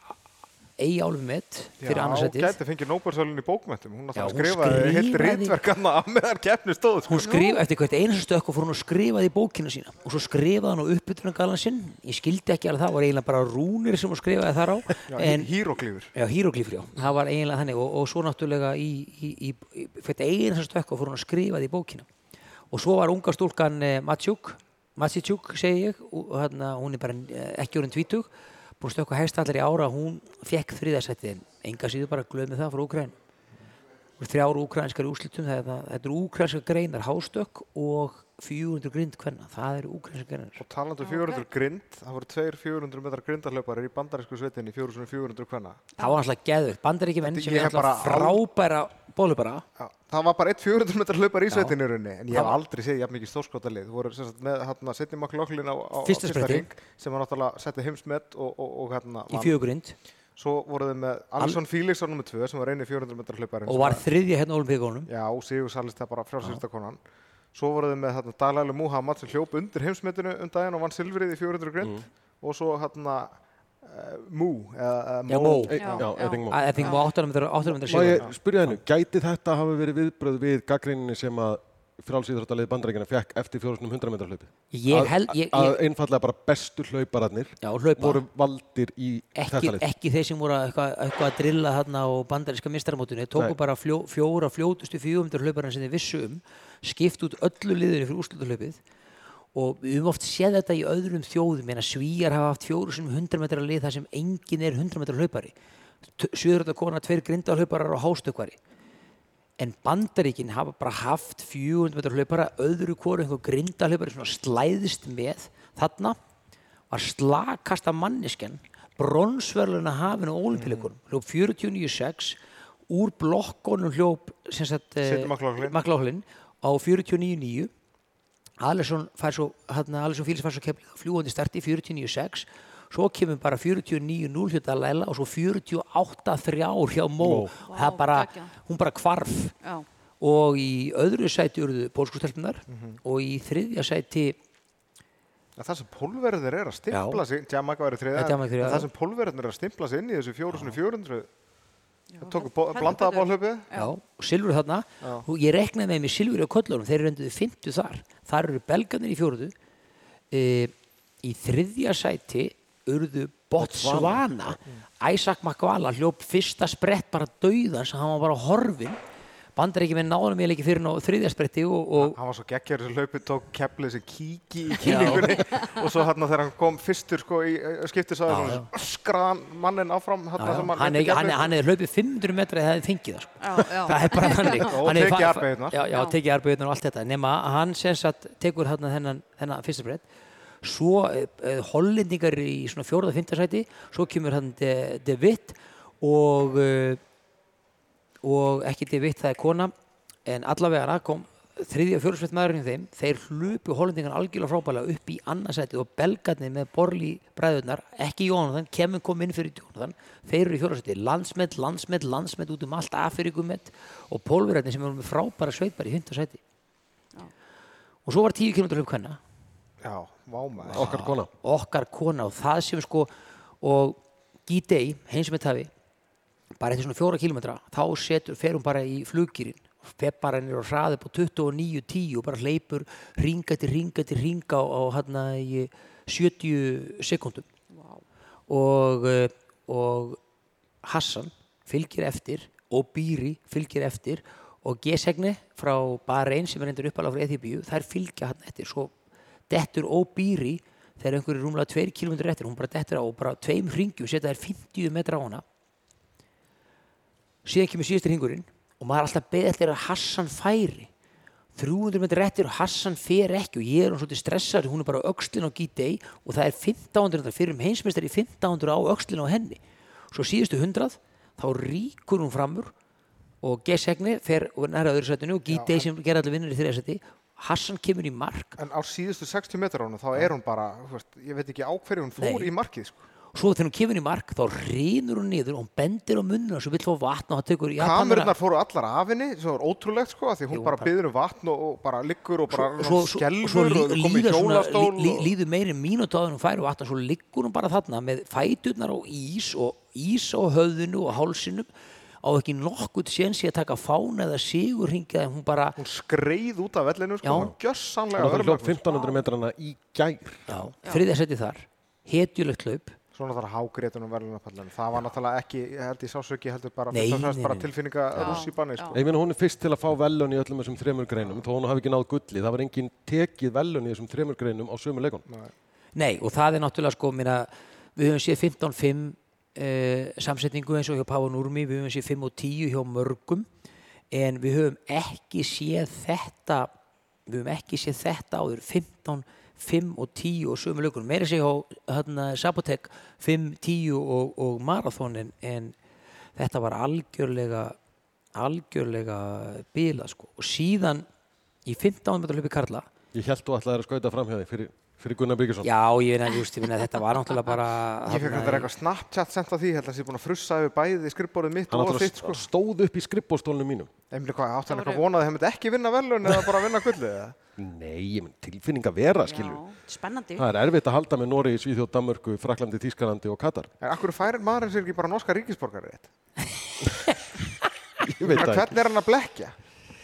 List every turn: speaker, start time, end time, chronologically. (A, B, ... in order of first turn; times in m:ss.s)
0:00.8-0:02.6 A
0:01.8-0:07.3 B
0:04.2-0:05.5 A
0:07.1-0:15.5 A
0:07.2-0:07.6 C
0:15.1-0:16.1 B
0:16.1-0:22.1 A
0:22.7-0:28.3 A
0:28.8-0:33.2 A
0:34.2-0:40.6 A
0:40.6-0:45.9 B
0:41.0-0:41.5 C
0:46.0-0:49.6 A
0:47.2-0:48.4 B
0:49.8-0:59.6 B
0:51.5-0:51.8 A
0:52.3-0:52.6 A
0:56.0-0:56.7 A
0:59.3-1:00.0 A
1:00.4-1:04.1 B
1:03.7-1:05.1 A
1:05.1-1:07.0 B
1:07.5-1:16.1 B
1:15.3-1:15.8 A
1:15.7-1:16.8 D
1:15.8-1:17.0 C
1:16.5-1:18.7 A
1:17.8-1:29.8 D
1:24.7-1:25.8 A
1:27.6-1:28.2 A
1:29.4-1:38.8 A
1:39.6-1:45.6 A
1:46.2-1:48.6 A
1:49.6-1:56.2 A
1:56.9-2:02.4 A
2:00.5-2:00.9 B
2:02.9-2:07.7 A
2:05.0-2:05.8 B
2:08.6-2:19.5 A
2:17.2-2:17.5 D
2:17.6-2:18.5 C
2:20.2-2:24.4 A
2:22.7-2:23.0 B
2:25.6-2:31.3 B
2:26.9-2:27.2 A
2:28.2-2:28.9 A
2:30.5-2:30.8 A
2:32.1-2:33.9 C
2:32.2-2:33.7 B
2:33.7-2:39.5 A
2:35.0-2:35.3 B
2:40.3-2:49.0 A
2:43.6-2:44.6 D
2:49.6-2:52.2 A
2:52.0-3:01.5 B
2:54.8-2:55.4 A
2:58.3-2:58.7 A
3:00.4-3:10.0 A
3:03.4-3:04.8 C
3:04.5-3:05.8 B
3:05.9-3:06.2 C
3:10.6-3:17.0 A
3:18.2-3:19.7 A
3:20.3-3:36.4 A
3:38.1-3:39.2 A
3:39.8-3:40.9 B
3:40.7-3:43.1 A
3:40.7-3:41.3 D
3:43.6-3:45.7 A
3:46.6-3:57.5 A
3:57.7-3:58.0 C
3:58.5-4:00.2 A
4:00.8-4:08.9 A
4:09.5-4:15.4 A
4:17.4-4:20.9 A
4:21.6-4:29.6 A
4:30.1-4:32.7 A
4:33.4-4:38.6 A
4:35.5-4:35.9 B
4:38.6-4:43.0 B
4:42.2-4:42.5 A
4:43.3-4:48.4 A
4:47.8-4:55.3 B
4:50.5-4:50.9 A
4:52.5-5:01.7 A
5:02.2-5:05.8 A
5:05.8-5:08.8 B
5:07.2-5:07.5 A
5:08.2-5:10.6 D
5:08.9-5:09.2 C
5:10.5-5:13.0 A
5:13.1-5:19.0 B
5:16.9-5:17.7 A
5:18.2-5:19.0 C
5:18.9-5:25.2 D
5:25.3-5:25.5 B
5:26.0-5:33.5 A
5:34.1-5:36.7 A
5:37.3-5:45.8 A
5:46.4-5:47.8 A
5:48.4-5:51.1 A
5:51.6-5:52.9 A
5:53.1-5:55.7 D
5:55.6-5:58.7 A
5:58.1-6:02.5 B
6:01.7-6:03.9 D
6:04.1-6:07.4 B
6:04.7-6:05.0 C
6:07.6-6:09.6 D
6:09.2-6:10.5 C
6:10.4-6:13.7 D
6:13.8-6:16.1 B
6:18.0-6:18.8 D
6:18.2-6:19.6 B